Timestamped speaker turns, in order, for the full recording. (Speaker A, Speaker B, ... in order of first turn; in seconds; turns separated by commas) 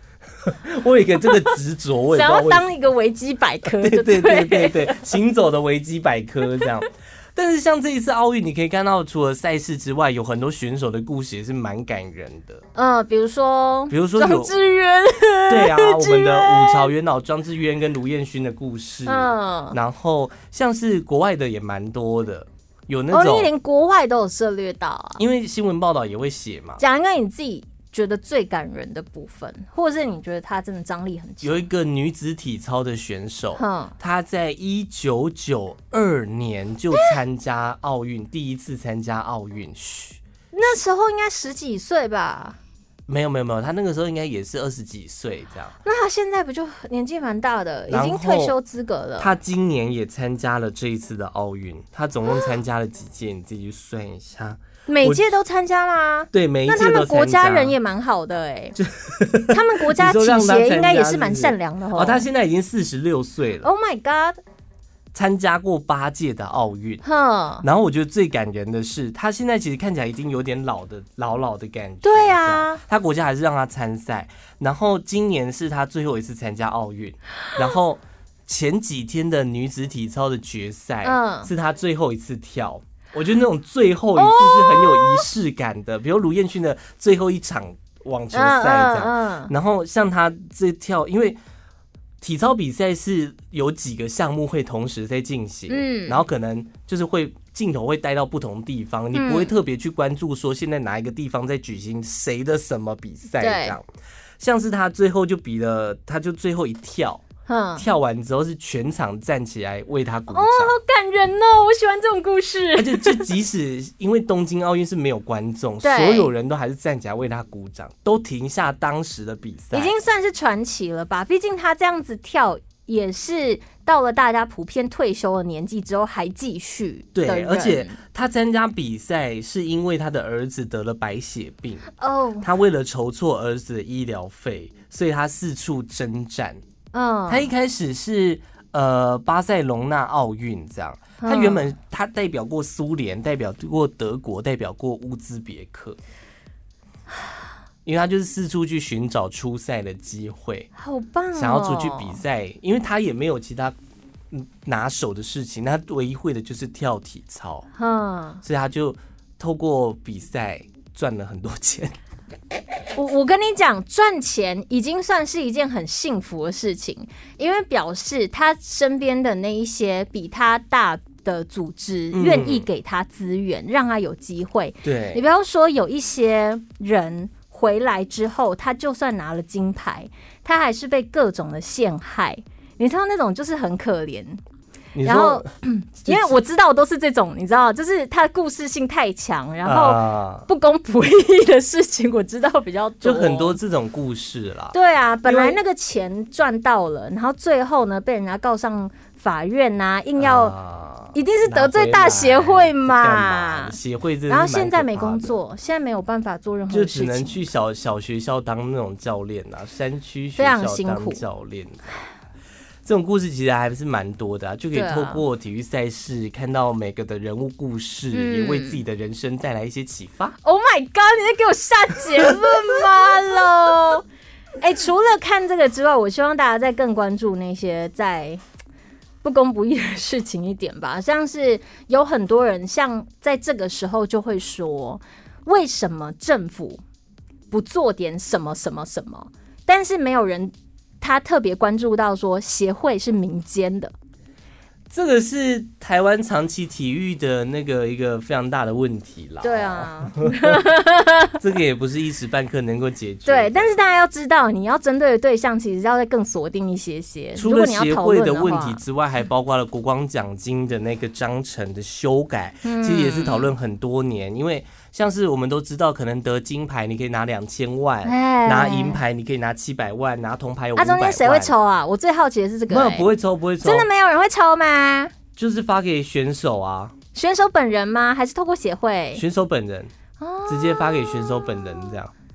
Speaker A: 0.5-2.7, Speaker B: 2.1-5.1, Speaker A: 3.7-12.7, Speaker B: 12.8-16.9, Speaker A: 13.9-14.5, Speaker A: 15.5-23.5, Speaker B: 19.1-19.8, Speaker B: 23.1-25.2, Speaker A: 25.2-26.8, Speaker B: 26.8-31.7, Speaker A: 31.4-40.2, Speaker B: 33.6-34.0, Speaker B: 40.5-42.6, Speaker A: 43.1-45.8, Speaker B: 45.9-49.4, Speaker A: 47.9-48.5, Speaker A: 49.2-55.3, Speaker B: 54.9-58.8, Speaker A: 56.3-57.8, Speaker A: 58.8-63.7, Speaker B: 59.5-62.3, Speaker B: 63.6-64.4, Speaker A: 65.1-67.0, Speaker B: 67.0-67.7, Speaker A: 67.6-91.4, Speaker B: 72.0-72.8, Speaker B: 81.0-81.5, Speaker B: 84.2-85.2, Speaker B: 88.3-89.5, Speaker A: 92.2-103.8, Speaker B: 95.7-96.2, Speaker B: 99.1-99.5, Speaker B: 103.4-103.8, Speaker A: 104.4-110.8, Speaker B: 107.5-107.9, Speaker B: 110.3-113.3, Speaker A: 112.8-120.0, Speaker B: 115.8-116.3, Speaker B: 119.7-128.0, Speaker A: 127.1-131.9, Speaker B: 132.0-132.5, Speaker A: 132.4-136.6, Speaker B: 136.9-137.5, Speaker A: 137.3-146.0, Speaker B: 141.2-141.7, Speaker A: 147.8-150.7, Speaker B: 150.8-152.2, Speaker A: 151.3-153.8, Speaker A: 154.3-157.7, Speaker B: 157.8-158.4, Speaker A: 158.4-161.9, Speaker B: 162.9-184.4, Speaker A: 172.1-172.7, Speaker A: 174.8-175.2, Speaker A: 184.9-185.5, Speaker B: 185.0-193.6, Speaker A: 186.1-186.4, Speaker A: 189.7-190.5, Speaker A: 193.0-195.6, Speaker B: 194.7-200.6, Speaker A: 200.2-205.4, Speaker B: 201.1-203.8, Speaker B: 204.3-207.4, Speaker A: 206.7-212.0, Speaker B: 210.4-211.2, Speaker A: 212.8-220.4, Speaker B: 214.7-215.2, Speaker B: 218.1-218.8, Speaker B: 220.4-224.1, Speaker B: 224.6-228.4, Speaker B: 229.2-236.8, Speaker B: 237.5-243.9, Speaker A: 244.9-250.6, Speaker B: 249.4-251.4, Speaker A: 251.4-253.7, Speaker B: 253.2-258.8, Speaker A: 257.4-271.5, Speaker B: 262.6-263.5, Speaker B: 268.0-269.0, Speaker B: 270.8-273.1, Speaker A: 272.7-273.9, Speaker B: 273.6-275.1, Speaker A: 275.4-276.9, Speaker B: 277.1-279.2, Speaker A: 279.1-279.9, Speaker B: 280.2-281.7, Speaker A: 280.5-282.1